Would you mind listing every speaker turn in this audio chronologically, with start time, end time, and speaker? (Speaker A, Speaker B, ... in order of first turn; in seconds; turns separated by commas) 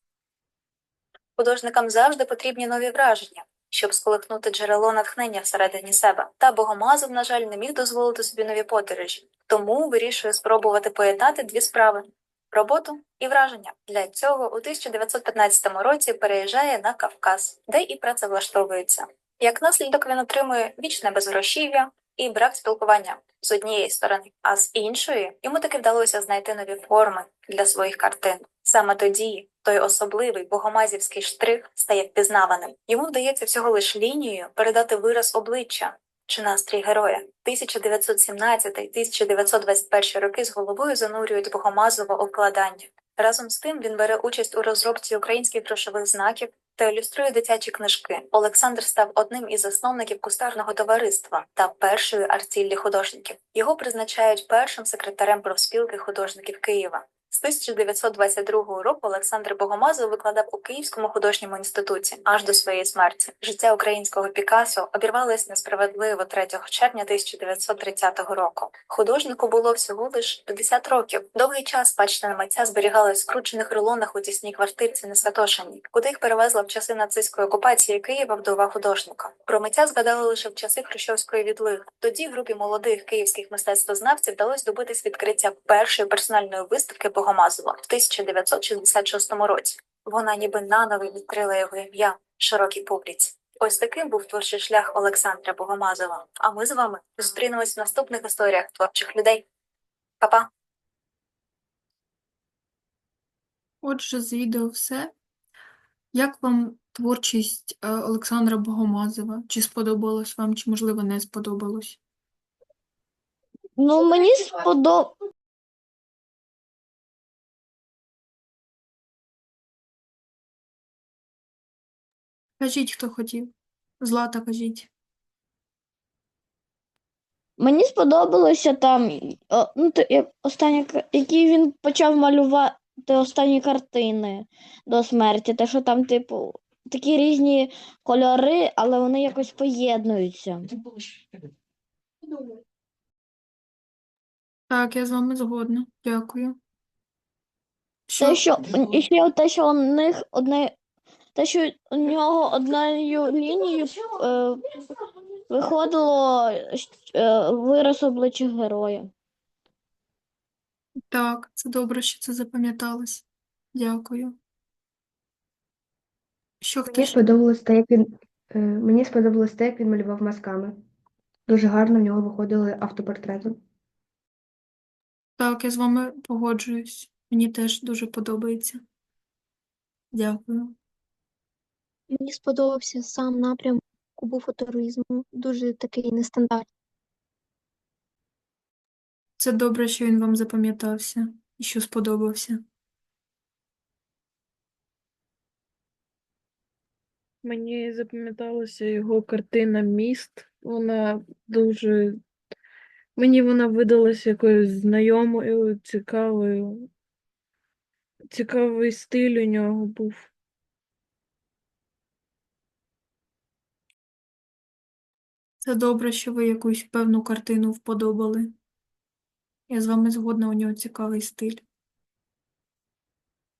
Speaker A: 1.4-99.5, Speaker A: 100.2-100.5, Speaker B: 103.8-105.1, Speaker B: 106.1-112.0, Speaker C: 113.8-115.1, Speaker B: 122.6-124.9, Speaker C: 127.6-140.7, Speaker B: 144.7-146.6, Speaker B: 148.1-149.0, Speaker C: 148.2-150.8, Speaker C: 151.3-154.7, Speaker C: 155.5-159.1, Speaker B: 161.1-164.4, Speaker B: 166.6-167.2, Speaker D: 166.9-170.8, Speaker D: 171.5-173.6, Speaker B: 175.4-178.8, Speaker B: 180.1-180.8, Speaker E: 182.1-186.7, Speaker B: 189.4-192.6, Speaker F: 197.4-202.2, Speaker F: 203.2-206.9, Speaker F: 208.3-210.3, Speaker B: 215.6-218.5, Speaker B: 219.7-221.6